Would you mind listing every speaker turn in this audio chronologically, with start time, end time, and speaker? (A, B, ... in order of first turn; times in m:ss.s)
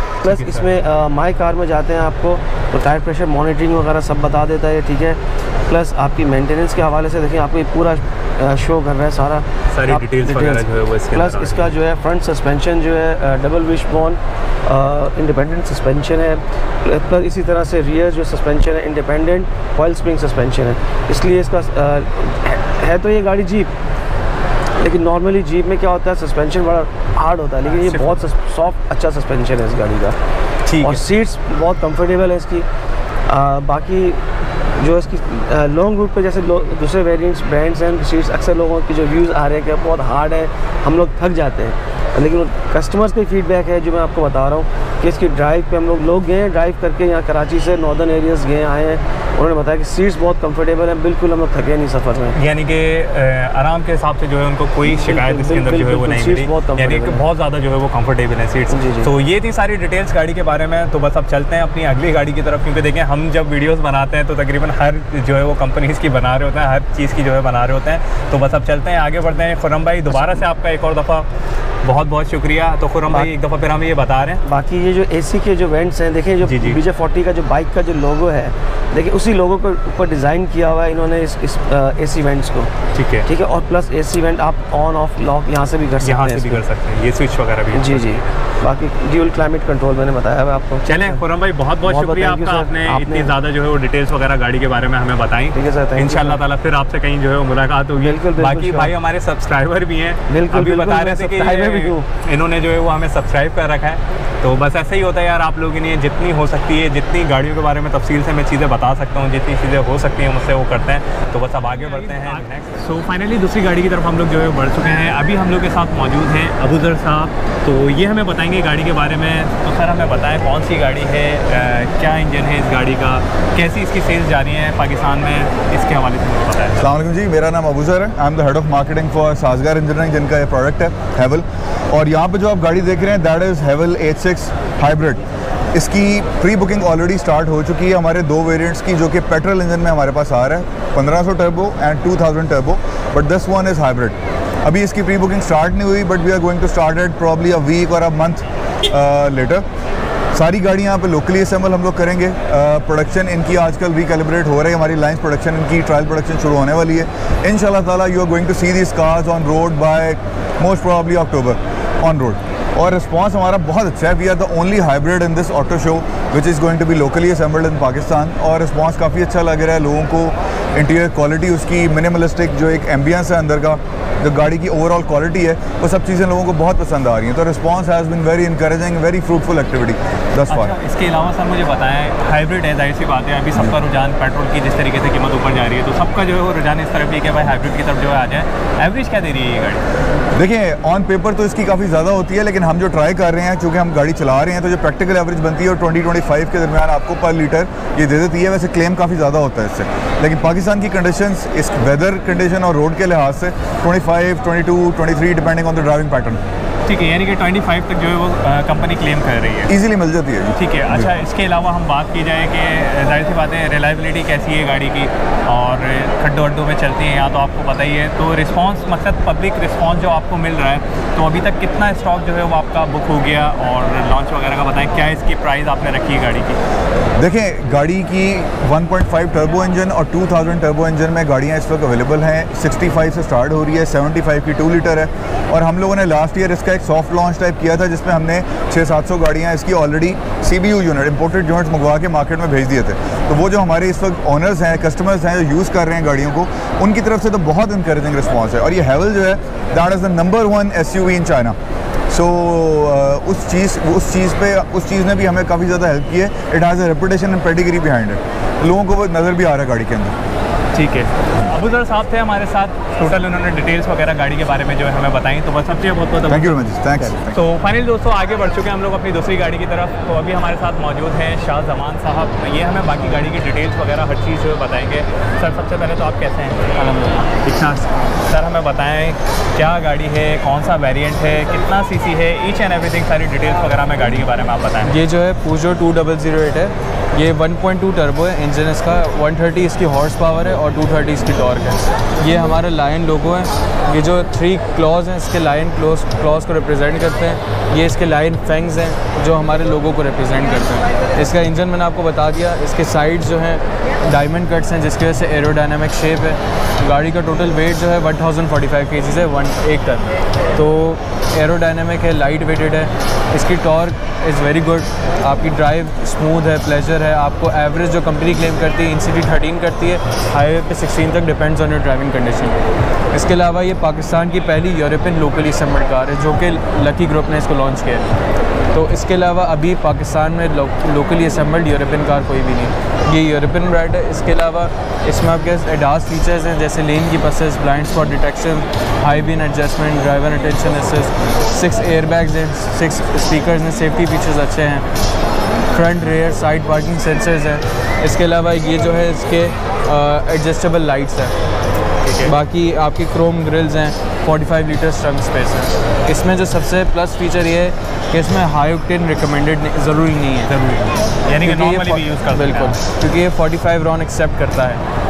0:00.2-0:23.7 A
0:00.2-0:00.7 B
0:09.7-0:11.8 B
0:24.8-0:30.2 A
0:27.7-0:28.2 B
0:30.7-0:31.0 B
0:30.8-0:32.7 A
0:33.3-0:34.2 A
0:34.8-0:52.4 A
0:52.4-1:11.3 B
0:54.8-0:57.2 A
0:58.7-0:59.1 A
1:10.1-1:10.4 A
1:11.8-1:14.4 B
1:14.4-1:22.7 A
1:16.4-1:16.8 B
1:22.9-1:23.3 B
1:23.3-1:26.6 A
1:26.0-1:28.3 B
1:27.7-1:31.2 A
1:30.8-2:06.8 B
1:31.8-1:33.3 A
1:35.5-1:36.4 A
1:38.0-1:38.9 A
1:40.3-1:42.1 A
2:06.8-2:15.2 C
2:15.7-2:29.6 C
2:30.3-3:00.7 C
3:00.5-3:09.8 B
3:10.4-3:26.4 C
3:26.9-3:29.7 B
3:29.7-3:31.1 C
3:30.6-3:46.6 B
3:47.2-4:11.6 C
4:12.1-4:20.2 C
4:20.7-4:36.7 B
4:26.3-4:27.4 C
4:36.7-4:37.8 D
4:37.6-4:45.0 B
4:44.8-5:28.1 D
5:28.7-5:44.9 D
5:45.7-5:51.4 D
5:52.0-5:52.4 B
5:52.2-6:00.9 D
6:00.5-6:02.8 B
6:01.4-6:04.8 D